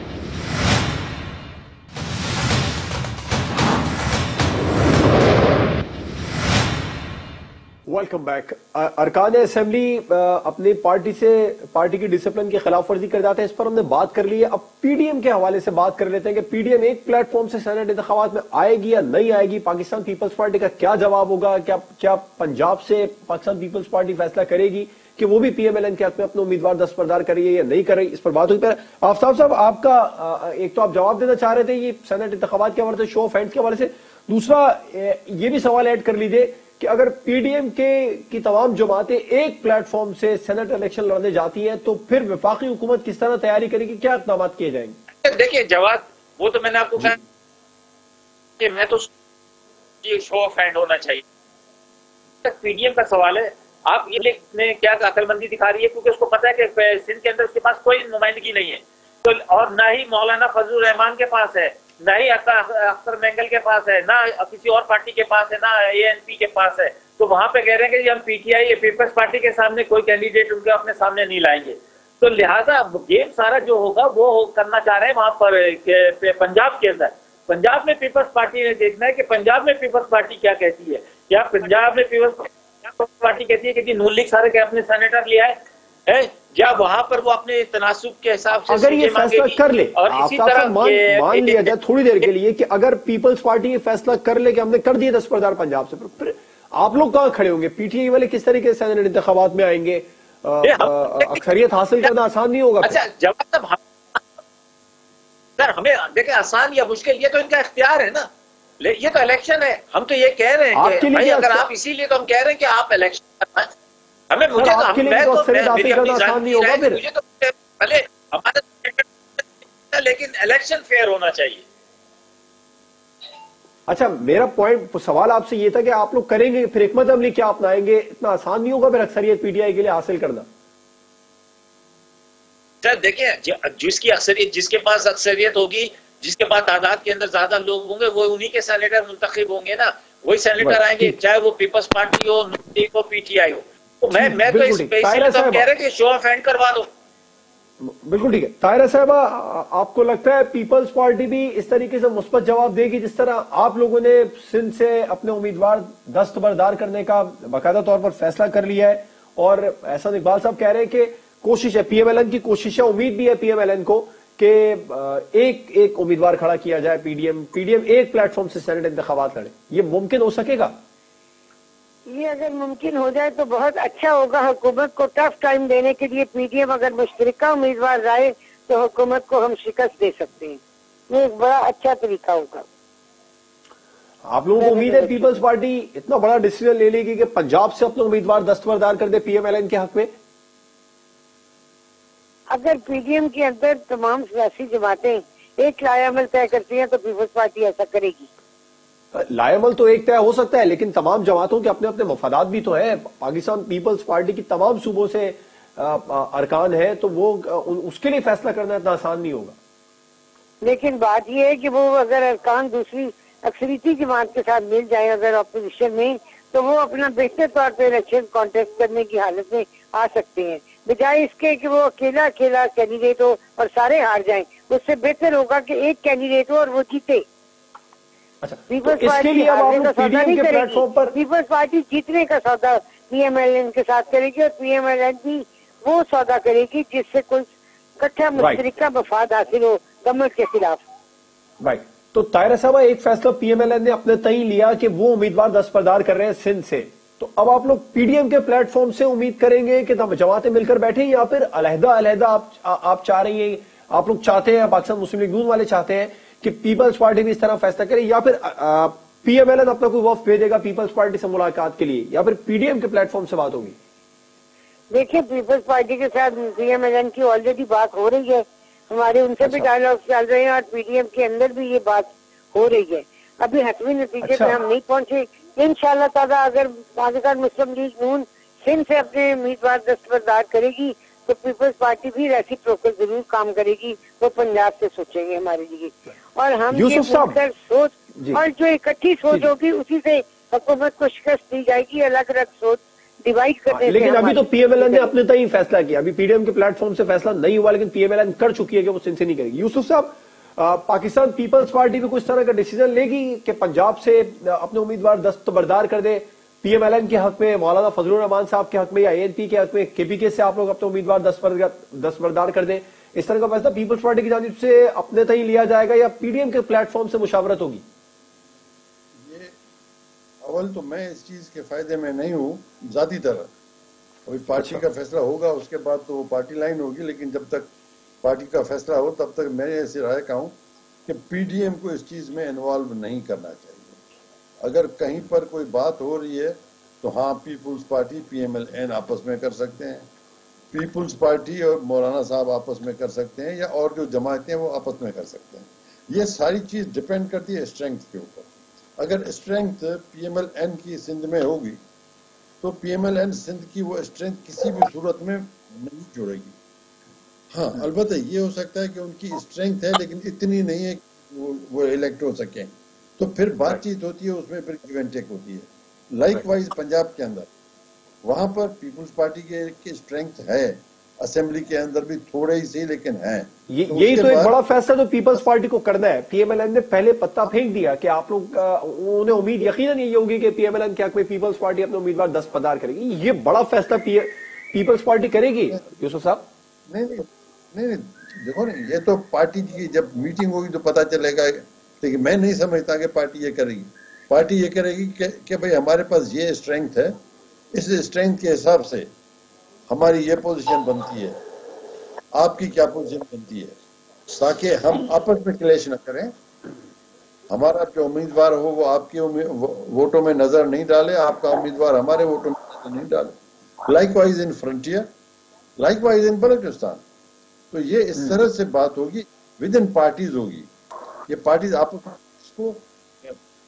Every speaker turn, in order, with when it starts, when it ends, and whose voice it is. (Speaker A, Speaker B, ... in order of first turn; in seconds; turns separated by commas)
Speaker A: 7.9-45.0, Speaker B: 45.2-47.2, Speaker B: 48.6-49.1, Speaker B: 50.0-51.2, Speaker B: 52.4-91.7, Speaker A: 88.7-103.0, Speaker B: 100.6-102.1, Speaker B: 102.8-104.2, Speaker B: 105.6-108.3, Speaker B: 108.8-113.7, Speaker A: 110.7-111.6, Speaker B: 114.3-121.6, Speaker A: 114.5-117.0, Speaker A: 123.9-130.5, Speaker B: 132.8-146.9, Speaker A: 140.6-141.2, Speaker A: 144.1-145.7, Speaker A: 147.8-170.7, Speaker C: 172.1-180.6, Speaker C: 181.1-182.7, Speaker A: 184.2-190.1, Speaker C: 184.6-185.4, Speaker C: 192.5-198.3, Speaker A: 199.1-209.6, Speaker C: 210.6-227.2, Speaker A: 228.4-231.1, Speaker C: 228.7-240.8, Speaker A: 238.4-238.6, Speaker A: 241.6-263.8, Speaker C: 264.9-295.1, Speaker A: 269.4-269.7, Speaker A: 274.2-274.6, Speaker A: 286.7-287.4, Speaker A: 288.1-288.4, Speaker A: 293.7-317.8, Speaker D: 319.2-319.5, Speaker D: 320.4-323.5, Speaker D: 324.2-327.7, Speaker A: 324.6-324.8, Speaker D: 328.2-334.0, Speaker D: 334.6-340.1, Speaker D: 340.7-351.8, Speaker D: 352.6-356.6, Speaker D: 357.5-367.5, Speaker D: 368.2-374.5, Speaker A: 373.7-386.5, Speaker D: 386.9-397.2, Speaker D: 397.7-399.1, Speaker D: 399.9-401.4, Speaker D: 402.4-403.8, Speaker D: 404.3-406.3, Speaker D: 407.5-415.1, Speaker D: 415.8-417.0, Speaker D: 417.7-420.7, Speaker D: 421.3-423.4